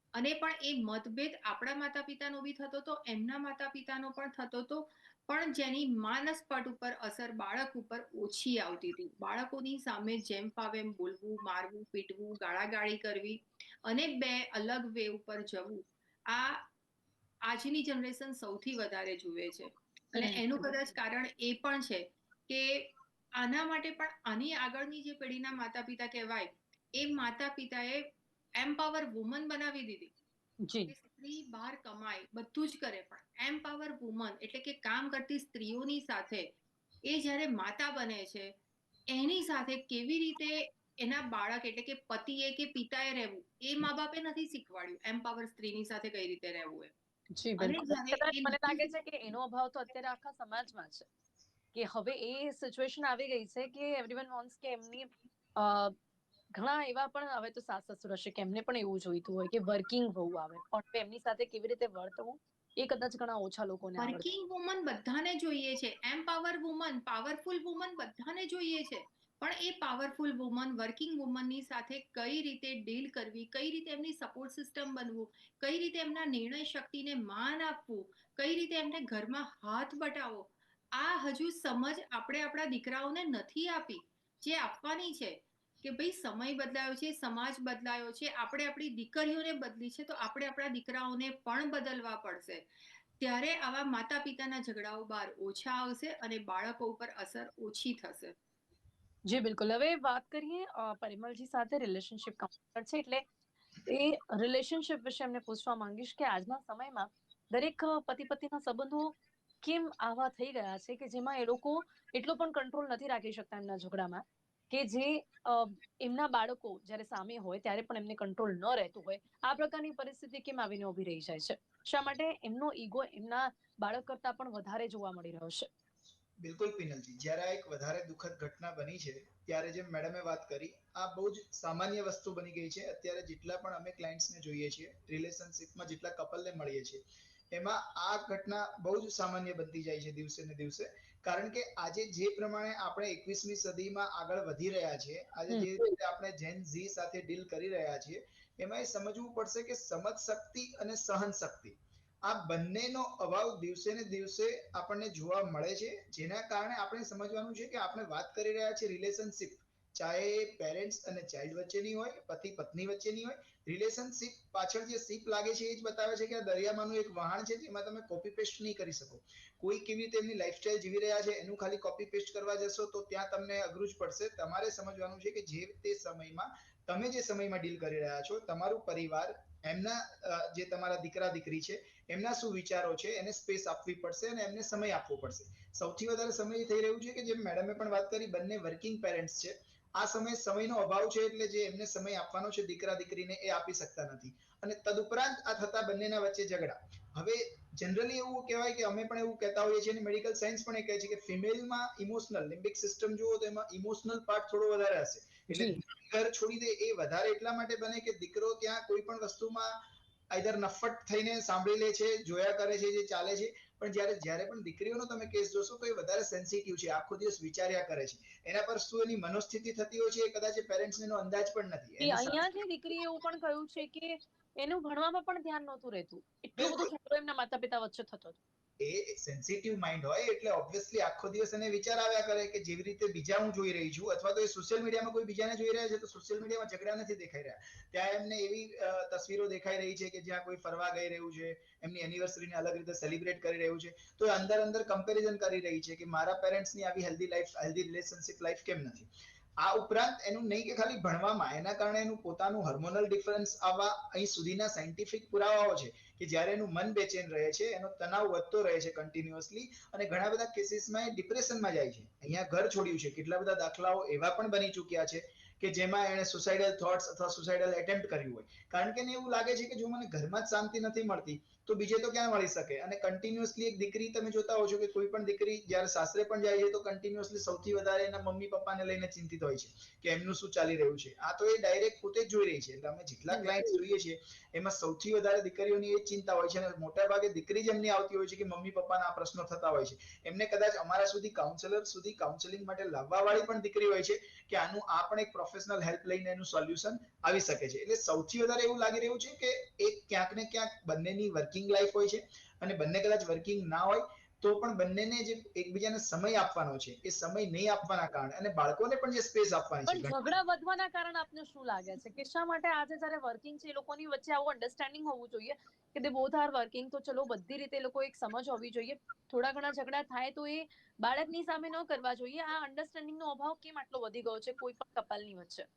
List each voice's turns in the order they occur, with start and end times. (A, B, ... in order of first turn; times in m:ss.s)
0:00.2-0:16.7 A
0:17.5-0:28.0 A
0:20.2-0:20.7 B
0:28.6-0:30.1 A
0:30.6-0:30.9 B
0:30.9-0:36.5 A
0:37.1-0:38.5 A
0:39.1-0:46.9 A
0:47.4-0:51.1 B
0:47.6-0:48.9 A
0:51.7-0:56.0 B
0:56.6-1:04.3 B
1:04.0-1:32.6 A
1:33.2-1:38.4 A
1:39.3-1:43.2 B
1:43.9-2:05.7 B
2:06.4-3:29.8 C
3:25.5-3:25.8 B
3:30.3-3:42.5 C
3:42.0-3:48.4 B
3:46.6-3:46.9 C
3:48.8-5:10.3 C
5:09.9-5:25.7 B